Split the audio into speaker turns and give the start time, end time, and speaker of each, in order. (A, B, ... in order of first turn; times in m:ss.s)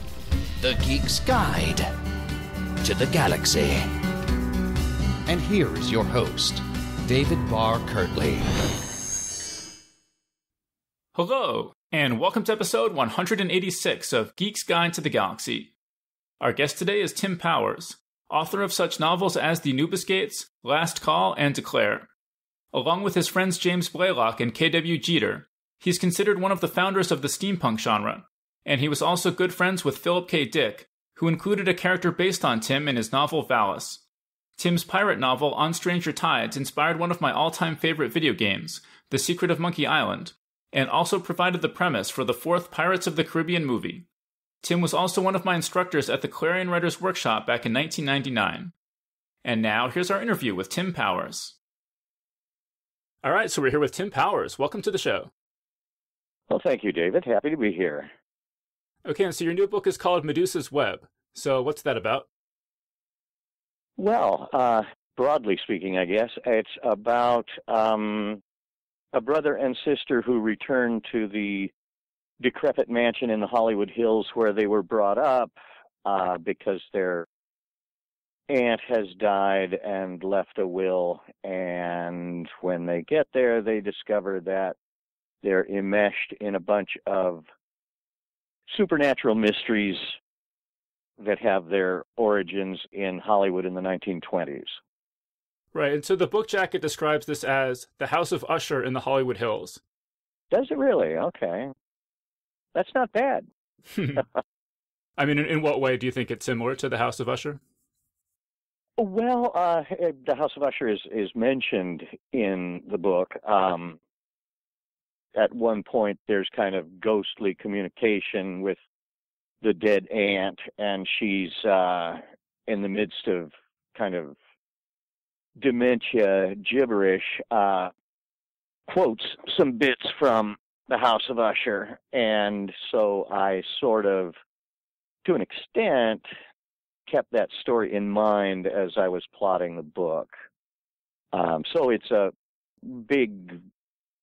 0:00.6-0:01.9 A
0:02.8-0:03.9 A
0:05.3-0:08.5 A
0:11.2-0:15.7 B
0:16.4-0:22.1 B
0:22.7-0:34.0 B
0:34.6-0:44.1 B
0:44.6-0:48.7 B
0:49.4-0:51.6 B
0:53.2-0:55.3 B
0:56.5-0:58.1 C
0:59.0-1:02.3 B
1:04.0-1:08.4 C
1:09.1-1:11.7 C
1:12.4-1:17.3 C
1:18.5-1:24.8 C
1:25.4-1:27.4 C
1:28.7-1:30.2 C
1:31.2-1:34.8 C
1:35.7-1:39.8 B
1:40.5-1:41.7 C
1:42.8-1:43.5 C
1:43.9-1:44.2 B
1:45.2-1:47.6 B
1:49.0-1:54.0 C
1:55.4-1:58.8 C
1:59.6-2:04.4 C
2:05.6-2:07.9 C
2:08.9-2:14.4 C
2:15.2-2:16.3 C
2:17.1-2:20.3 C
2:21.3-2:22.3 C
2:22.8-2:23.6 C